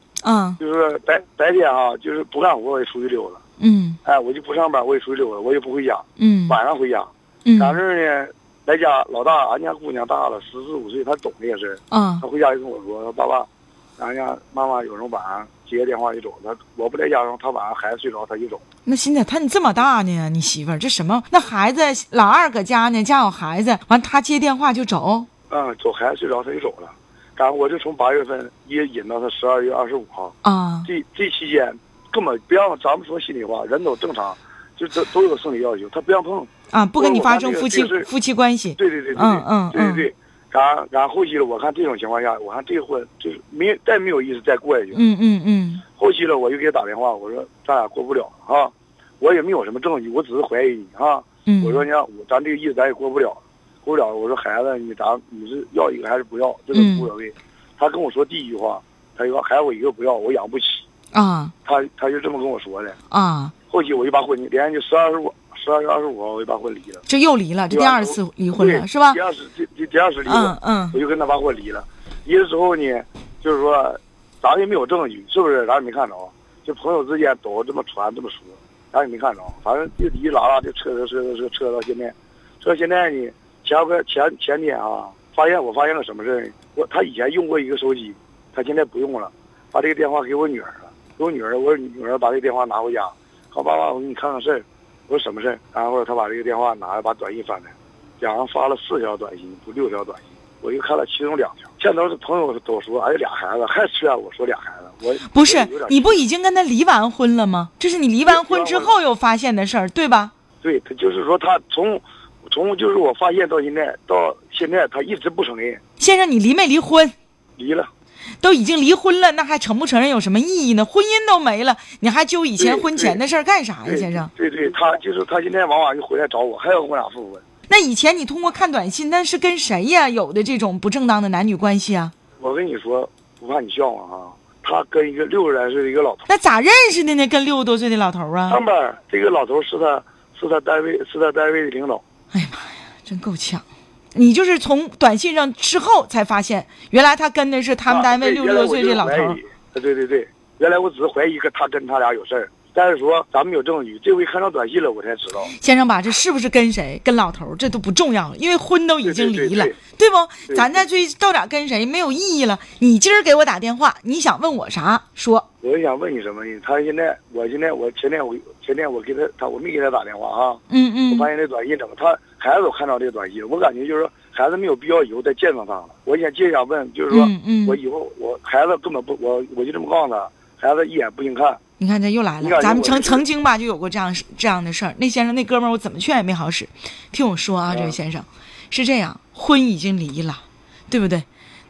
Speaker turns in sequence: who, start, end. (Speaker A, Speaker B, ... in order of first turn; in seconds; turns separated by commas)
Speaker A: 0.2-0.6, Speaker B: 0.6-3.4, Speaker A: 3.6-4.0, Speaker B: 4.0-18.6, Speaker A: 6.2-6.6, Speaker A: 7.5-7.8, Speaker A: 11.9-12.2, Speaker A: 18.9-25.3, Speaker B: 25.5-38.1, Speaker A: 30.4-30.9, Speaker A: 36.7-40.0, Speaker B: 38.8-45.0, Speaker A: 44.9-45.8, Speaker B: 45.9-60.8, Speaker A: 51.5-51.8, Speaker A: 56.7-57.1, Speaker A: 61.1-61.5, Speaker B: 61.6-63.0, Speaker A: 63.1-63.5, Speaker B: 63.7-67.0, Speaker A: 67.1-69.2, Speaker B: 67.7-106.2, Speaker A: 70.2-71.0, Speaker A: 105.3-110.3, Speaker B: 108.2-108.9, Speaker B: 110.6-115.8, Speaker A: 116.0-117.1, Speaker B: 117.6-117.9, Speaker A: 118.4-124.3, Speaker B: 122.6-123.2, Speaker B: 123.8-127.4, Speaker A: 127.7-132.1, Speaker B: 132.4-136.3, Speaker A: 136.3-138.6, Speaker B: 138.5-142.0, Speaker A: 142.3-149.4, Speaker B: 147.9-155.5, Speaker A: 155.5-165.4, Speaker B: 159.0-159.8, Speaker B: 160.5-160.8, Speaker B: 165.6-181.6, Speaker A: 170.7-171.3, Speaker A: 177.1-177.8, Speaker A: 181.8-191.2, Speaker B: 182.4-183.2, Speaker B: 187.7-188.0